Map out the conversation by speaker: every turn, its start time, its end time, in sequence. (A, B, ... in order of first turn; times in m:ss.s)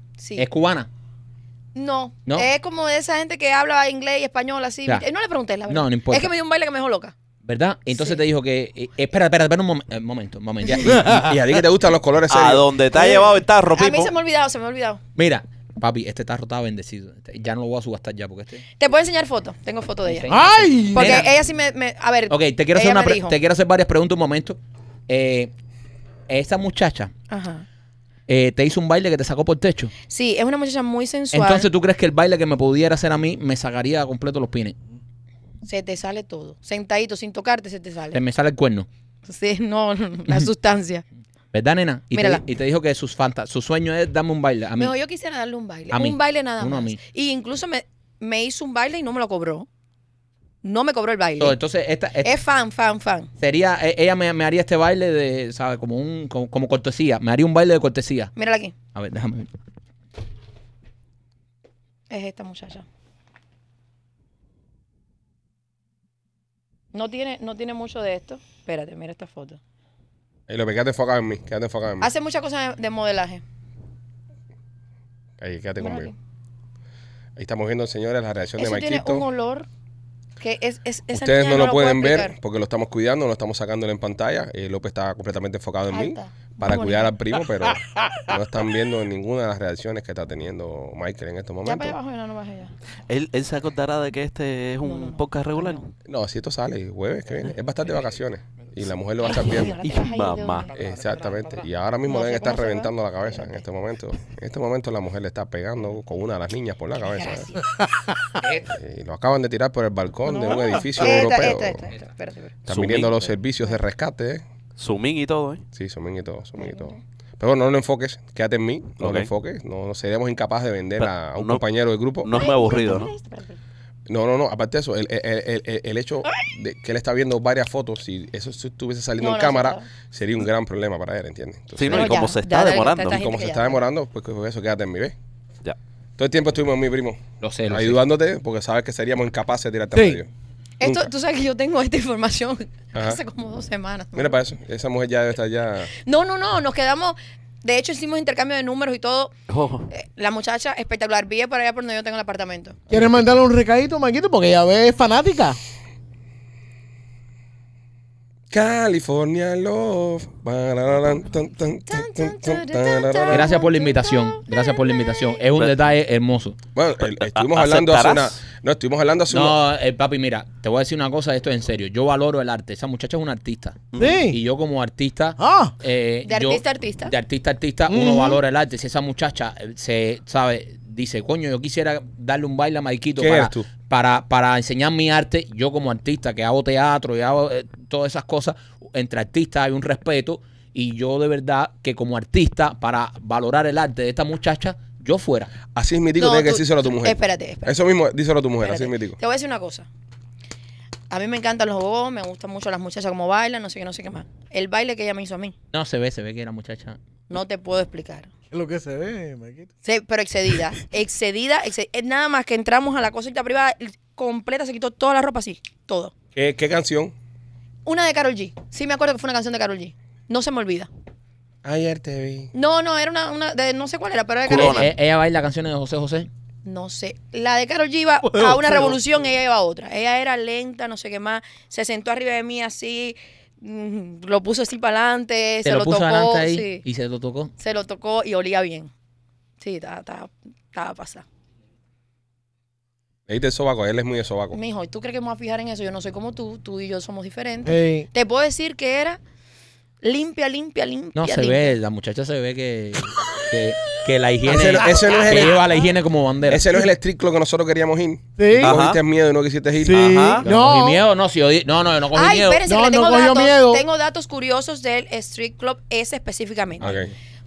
0:00.2-0:00.5 A
0:00.4-0:00.9 B
0:01.7-0:07.1 A
0:05.7-0:06.3 B
0:07.4-0:11.4 B
0:07.9-0:08.2 A
0:10.7-0:10.9 A
0:11.1-0:12.7 C
0:12.3-0:14.1 D
0:12.9-0:15.0 A
0:15.2-0:18.6 B
0:18.8-0:20.3 A
0:20.0-0:21.3 B
0:20.3-0:21.3 E
0:20.9-0:23.4 A
0:22.3-0:25.5 B
0:26.3-0:27.1 B
0:27.3-0:27.6 A
0:28.3-0:29.9 B
0:30.0-0:31.7 A
0:31.3-0:34.8 B
0:35.6-0:38.2 A
0:38.1-0:38.9 B
0:39.3-0:41.0 A
0:41.5-0:44.9 B
0:42.1-0:42.4 A
0:44.8-0:49.7 A
0:45.9-0:47.0 B
0:50.6-0:51.6 A
0:51.4-0:52.3 B
0:52.2-0:53.3 A
0:53.4-0:58.3 B
0:58.3-0:58.8 A
0:58.9-0:59.5 B
1:02.1-1:02.8 A
1:06.9-1:09.6 A
1:10.5-1:12.1 C
1:12.0-1:13.4 A
1:15.4-1:16.1 C
1:15.8-1:16.1 A
1:17.4-1:19.2 C
1:18.6-1:19.7 A
1:20.4-1:22.3 A
1:21.1-1:32.0 C
1:25.9-1:27.1 A
1:31.6-1:32.7 A
1:33.1-1:35.9 D
1:34.8-1:35.8 A
1:36.1-1:39.8 C
1:39.3-1:40.9 A
1:39.8-1:40.7 D
1:40.7-1:47.5 C
1:40.9-1:41.6 B
1:42.1-1:43.6 A
1:47.0-1:47.6 A
1:48.4-1:48.7 B
1:48.7-1:51.9 C
1:50.4-1:52.5 A
1:52.6-1:54.4 C
1:52.7-1:53.3 D
1:54.8-1:55.6 D
1:55.7-2:02.3 C
1:56.6-1:56.9 A
1:59.0-1:59.3 D
2:01.0-2:01.6 D
2:02.2-2:03.1 D
2:02.3-2:03.6 A
2:04.1-2:12.3 C
2:09.2-2:09.8 A
2:11.8-2:13.2 D
2:11.9-2:13.8 A
2:13.1-2:15.2 C
2:16.2-2:20.3 C
2:17.4-2:18.0 B
2:19.9-2:20.2 E
2:20.8-2:24.3 A
2:20.8-2:21.1 C
2:22.9-2:23.2 C
2:24.1-2:25.9 C
2:26.0-2:29.3 A
2:29.5-2:29.9 D
2:29.9-2:32.8 A
2:32.9-2:33.3 C
2:32.9-2:35.6 E
2:38.5-2:43.6 C
2:41.9-2:45.3 A
2:43.3-2:46.6 B
2:46.7-2:49.6 C
2:47.0-2:48.4 D
2:49.3-3:15.5 B
2:54.0-2:54.4 E
2:55.4-2:55.7 E
2:56.2-2:57.1 A
2:57.9-2:58.4 E
3:03.2-3:03.7 C
3:15.7-3:19.2 C
3:16.2-3:17.7 A
3:18.6-3:19.9 A
3:21.1-3:25.5 A
3:25.7-3:27.0 B
3:27.3-3:28.3 A
3:28.5-3:29.7 E
3:29.8-3:36.1 A
3:36.3-3:37.1 C
3:37.8-3:40.9 A
3:41.6-3:42.5 C
3:42.5-3:44.9 A
3:44.5-3:44.9 D
3:44.5-3:46.3 B
3:46.6-3:56.8 A
3:48.3-3:48.9 E
3:55.6-3:57.5 B
3:57.6-3:58.9 A
3:59.6-4:01.2 A
4:03.3-4:04.6 C
4:04.5-4:09.2 A
4:07.6-4:08.1 E
4:10.0-4:11.8 A
4:11.1-4:16.8 B
4:14.4-4:15.7 C
4:15.0-4:15.4 A
4:16.5-4:20.5 C
4:18.4-4:18.8 E
4:18.6-4:19.0 D
4:19.8-4:21.0 E
4:19.9-4:20.4 D
4:20.4-4:22.6 B
4:22.1-4:27.0 A
4:22.6-4:23.8 E
4:26.8-4:27.1 C